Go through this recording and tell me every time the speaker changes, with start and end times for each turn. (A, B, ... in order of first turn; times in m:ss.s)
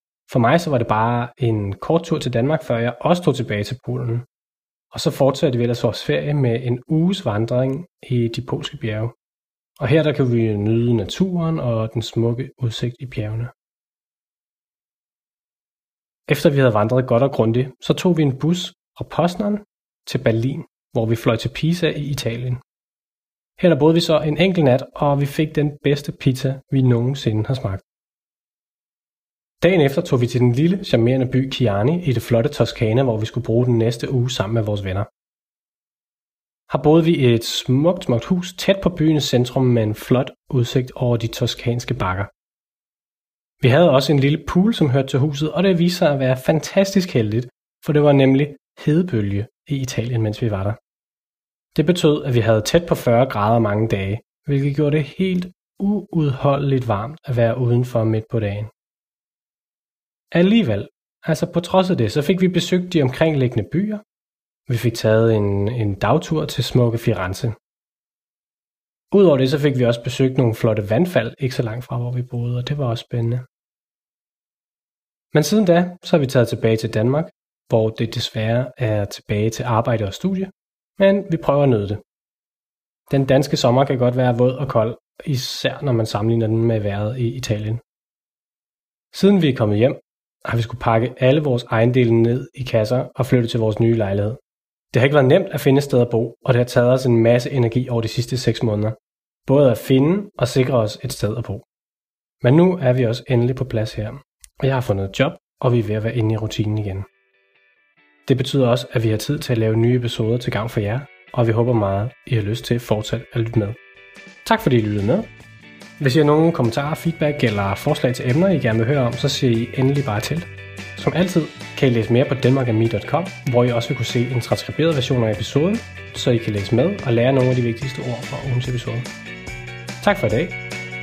0:00.3-0:04.3 A
0:04.9-0:09.2 A
0:09.8-0:13.5 A
0:16.3-0:22.6 A
0:23.6-0:27.8 A
0:29.6-0:35.1 A
0:36.7-0:42.3 A
0:43.6-0:50.8 A
0:51.8-0:58.7 A
1:00.3-1:04.0 A
1:04.7-1:07.6 A
1:09.1-1:13.5 A
1:15.3-1:22.0 A
1:23.1-1:27.8 A
1:29.1-1:34.4 A
1:34.9-1:41.7 A
1:42.4-1:47.1 A
1:48.3-1:53.8 A
1:54.4-1:55.3 A
1:56.0-2:09.1 A
2:10.0-2:10.6 A